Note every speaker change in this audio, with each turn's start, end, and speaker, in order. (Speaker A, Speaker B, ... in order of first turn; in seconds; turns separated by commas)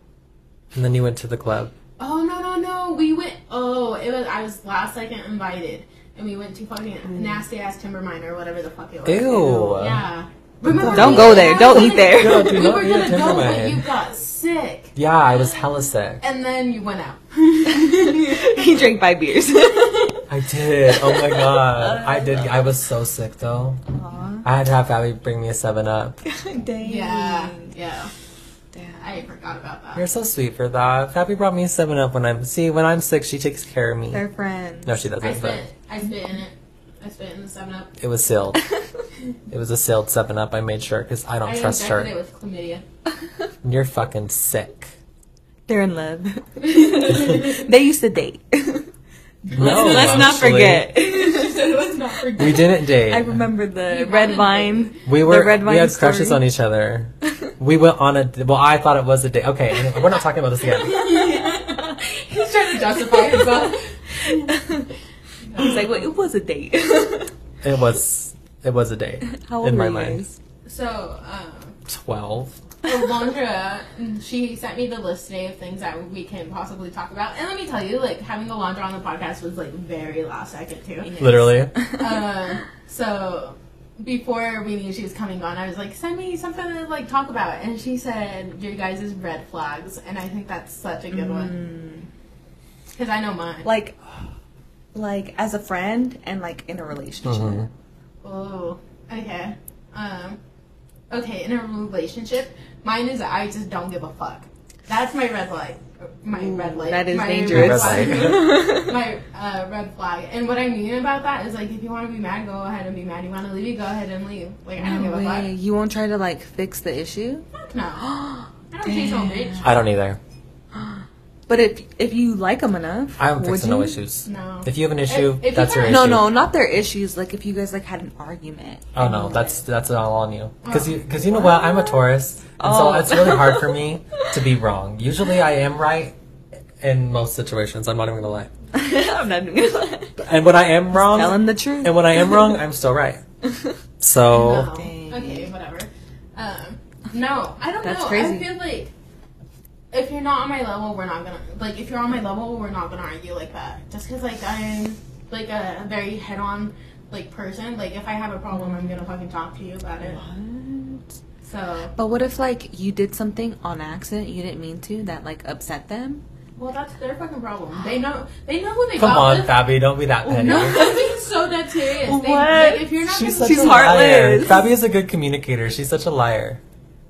Speaker A: 0.7-1.7, Speaker B: 2.0-14.9, Speaker C: 7.1-7.4, Speaker A: 9.0-10.0, Speaker A: 10.7-13.8, Speaker C: 10.9-12.6, Speaker A: 14.9-16.2, Speaker B: 16.2-18.7, Speaker C: 17.7-20.2, Speaker A: 20.3-23.8, Speaker C: 20.9-22.6, Speaker C: 23.9-24.5, Speaker A: 24.4-26.2, Speaker C: 26.2-27.7, Speaker B: 26.8-28.1, Speaker C: 28.7-29.2, Speaker B: 29.0-30.1, Speaker A: 29.9-34.2, Speaker C: 34.1-35.0, Speaker A: 34.9-35.6, Speaker B: 35.2-37.9, Speaker A: 38.0-38.6, Speaker A: 39.5-42.1, Speaker B: 41.4-42.8, Speaker A: 43.6-44.9, Speaker C: 45.7-48.9, Speaker B: 46.6-47.7, Speaker B: 49.4-52.7, Speaker A: 49.5-50.9, Speaker C: 49.5-51.6, Speaker A: 52.4-53.4, Speaker C: 53.0-56.4, Speaker B: 53.9-54.9, Speaker A: 55.0-61.2, Speaker B: 60.6-64.5, Speaker C: 61.5-62.0, Speaker C: 63.1-64.9, Speaker B: 65.5-66.0, Speaker C: 65.5-67.3, Speaker A: 67.6-70.2, Speaker C: 69.3-70.4, Speaker B: 70.6-71.8, Speaker A: 71.9-72.6, Speaker B: 72.8-91.5, Speaker A: 81.2-81.7, Speaker C: 81.7-82.0, Speaker C: 91.1-92.1, Speaker B: 92.9-93.7, Speaker C: 93.6-94.0, Speaker C: 94.9-97.7, Speaker A: 97.2-97.7, Speaker B: 98.2-100.4, Speaker B: 101.1-115.5, Speaker C: 106.3-109.0, Speaker A: 107.5-108.5, Speaker C: 114.8-117.5, Speaker B: 117.6-118.1, Speaker C: 118.0-119.7, Speaker B: 118.7-119.8, Speaker A: 119.6-120.2, Speaker C: 120.8-124.0, Speaker A: 123.2-126.3, Speaker B: 124.2-126.1, Speaker C: 125.8-129.6, Speaker A: 128.9-136.2, Speaker B: 130.6-131.0, Speaker C: 131.3-132.0, Speaker C: 132.6-134.2, Speaker A: 136.8-138.5, Speaker C: 138.7-140.2, Speaker A: 140.2-143.2, Speaker C: 140.9-142.4, Speaker C: 143.5-143.8, Speaker A: 144.0-144.7, Speaker B: 144.3-148.9, Speaker C: 144.4-145.5, Speaker C: 147.8-148.5, Speaker B: 149.9-160.2, Speaker C: 158.5-159.0, Speaker C: 160.0-161.1, Speaker B: 161.4-161.9, Speaker C: 161.9-166.2, Speaker B: 166.6-169.7, Speaker A: 169.0-170.8, Speaker C: 170.2-171.2, Speaker B: 170.4-174.1, Speaker C: 172.0-174.7, Speaker A: 173.0-176.6